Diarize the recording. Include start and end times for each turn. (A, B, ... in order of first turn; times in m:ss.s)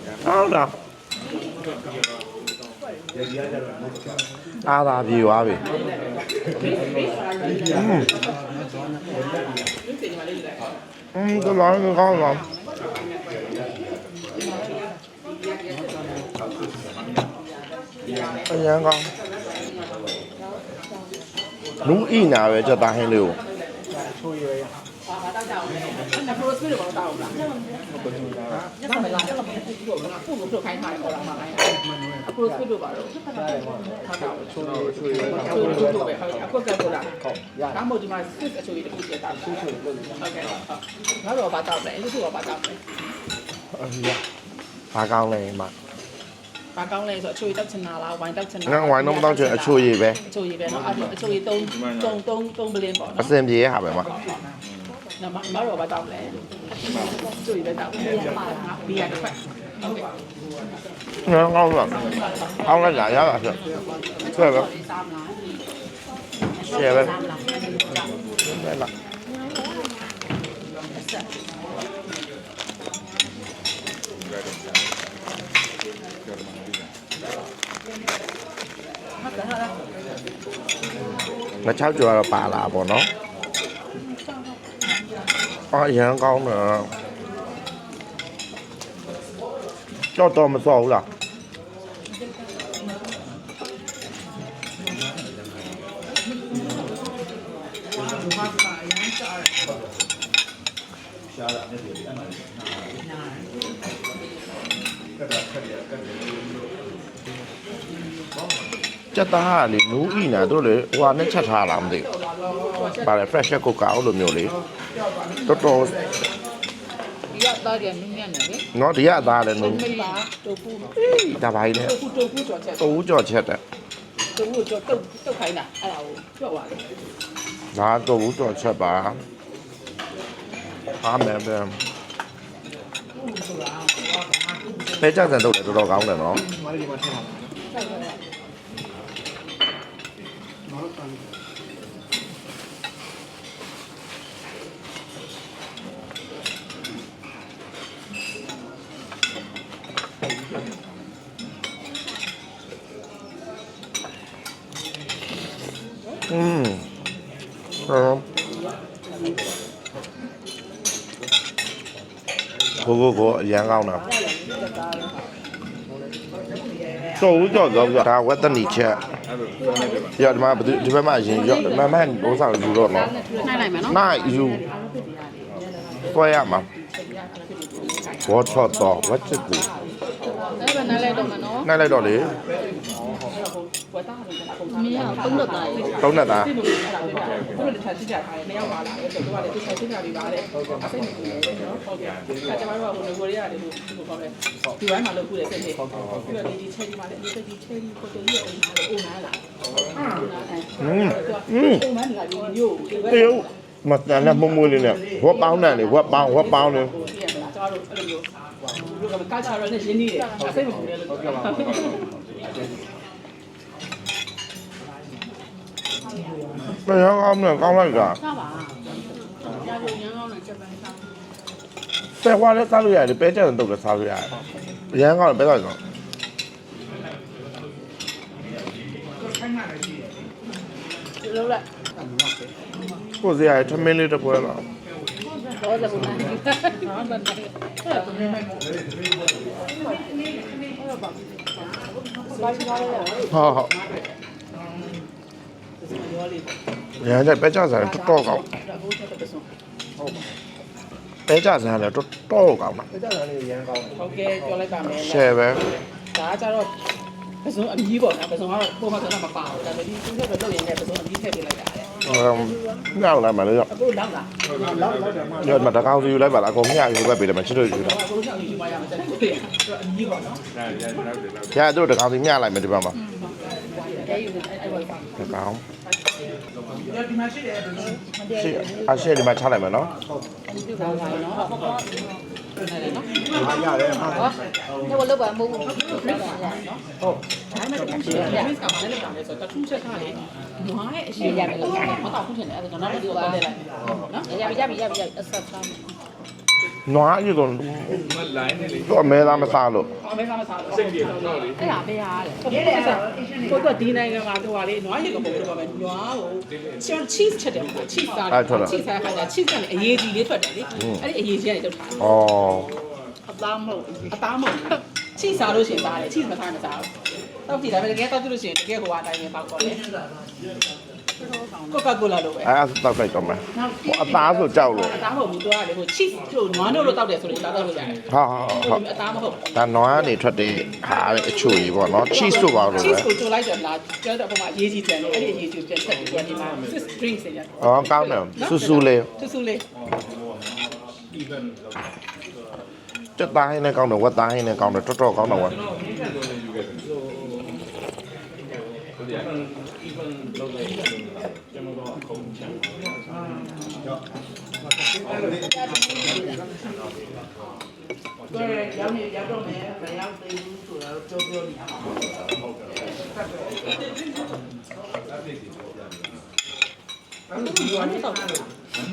0:00.2-0:00.7 A
0:04.6-0:05.7 A
0:05.6-0:10.8 B
0:07.7-0:08.1 A
0:11.1-0:12.4 A
0:12.5-0:13.6 B
0:14.3-0:17.2 B
0:18.0-0:18.3 B
0:18.4-0:19.1 A
0:19.4-0:20.1 B
0:21.8-0:23.4 A
0:22.6-0:24.1 B
0:25.0-0:27.4 B
0:28.8-0:33.3 B
0:33.9-0:42.8 B
0:43.8-0:44.2 A
0:44.9-0:45.7 A
0:46.8-0:53.4 B
0:48.6-0:50.2 A
0:53.2-0:54.1 A
0:55.2-1:00.0 B
1:01.3-1:02.0 A
1:01.8-1:03.2 B
1:02.6-1:03.6 A
1:04.2-1:05.4 B
1:04.3-1:04.7 A
1:06.7-1:07.2 A
1:06.7-1:07.5 B
1:08.4-1:08.9 A
1:21.6-1:23.1 A
1:25.7-1:26.9 A
1:30.1-1:31.1 A
1:38.0-1:39.5 C
1:49.1-1:52.1 A
1:50.2-1:53.4 B
1:53.0-1:54.6 A
1:55.0-1:55.9 C
1:55.5-1:56.0 A
1:57.3-1:58.6 D
1:58.7-1:59.9 A
1:59.6-2:01.0 B
1:59.6-2:00.2 D
2:01.0-2:02.0 A
2:01.8-2:02.9 B
2:02.8-2:03.6 A
2:04.4-2:06.8 B
2:07.7-2:09.2 A
2:11.0-2:11.8 A
2:13.4-2:14.6 C
2:15.0-2:16.4 A
2:17.7-2:18.1 B
2:36.3-2:36.8 A
2:37.9-2:38.2 A
2:42.8-2:44.1 A
2:44.0-2:45.1 D
2:46.5-2:47.8 C
2:47.2-2:49.0 A
2:50.2-2:53.2 A
2:51.3-2:52.1 B
2:52.4-2:53.8 D
2:53.2-2:54.0 B
2:53.8-2:54.6 A
2:56.1-2:56.7 A
2:56.8-2:58.4 B
2:58.3-2:59.7 A
3:00.2-3:19.4 B
3:00.6-3:01.7 D
3:01.6-3:02.4 A
3:04.7-3:06.0 D
3:06.0-3:06.6 A
3:20.1-3:23.5 B
3:20.8-3:21.9 A
3:23.1-3:26.9 A
3:24.4-3:25.2 C
3:25.3-3:32.5 B
3:36.8-3:38.2 A
3:39.4-3:40.4 B
3:42.2-3:44.3 A
3:44.9-3:45.8 A
3:49.3-3:50.0 C
3:51.3-3:51.6 D
3:53.2-3:54.6 A
3:55.6-3:58.3 D
3:56.8-3:57.3 B
3:57.9-3:58.6 C
4:00.6-4:01.1 B
4:02.2-4:04.1 B
4:02.6-4:03.1 D
4:03.3-4:03.7 A
4:05.8-4:06.6 B
4:07.0-4:08.5 A
4:07.6-4:09.5 B
4:11.3-4:12.9 A
4:13.9-4:15.5 B
4:15.0-4:15.6 A
4:16.1-4:16.7 B
4:17.4-4:21.9 B
4:22.0-4:23.7 A
4:23.7-4:25.1 B
4:25.4-4:28.0 A
4:27.7-4:30.4 B
4:31.5-4:33.0 A
4:33.2-4:35.1 B
4:34.0-4:35.0 D
4:35.2-4:35.6 A
4:35.8-4:36.4 B
4:36.9-4:38.0 C
4:37.9-4:39.1 D
4:38.4-4:39.9 A
4:40.5-4:42.2 D
4:40.6-4:41.5 B
4:42.6-4:43.4 B
4:43.3-4:44.7 C
4:44.1-4:46.6 D
4:45.7-4:46.8 B
4:47.5-4:55.0 B
4:47.7-4:48.5 D
4:51.2-4:52.1 D
4:53.0-4:53.4 D
4:54.3-4:55.8 D
4:56.9-4:58.1 A
4:58.6-4:59.9 A
5:00.0-5:01.6 B
5:01.6-5:02.4 D
5:02.4-5:12.0 B
5:02.5-5:03.6 C
5:08.3-5:08.8 A
5:10.8-5:11.0 A
5:12.0-5:12.7 A
5:13.3-5:14.2 D
5:14.1-5:16.9 B
5:17.5-5:19.8 B
5:21.7-5:22.5 B
5:22.4-5:25.0 A
5:23.6-5:24.4 C
5:24.8-5:29.5 B
5:28.1-5:28.8 A
5:29.5-5:33.1 A
5:31.3-5:39.6 B
5:37.6-5:39.1 A
5:43.2-5:45.6 A
5:53.1-5:53.6 C
5:55.1-5:56.2 C
5:58.3-6:02.2 C
6:03.6-6:04.3 B
6:07.3-6:08.5 B
6:07.3-6:08.4 C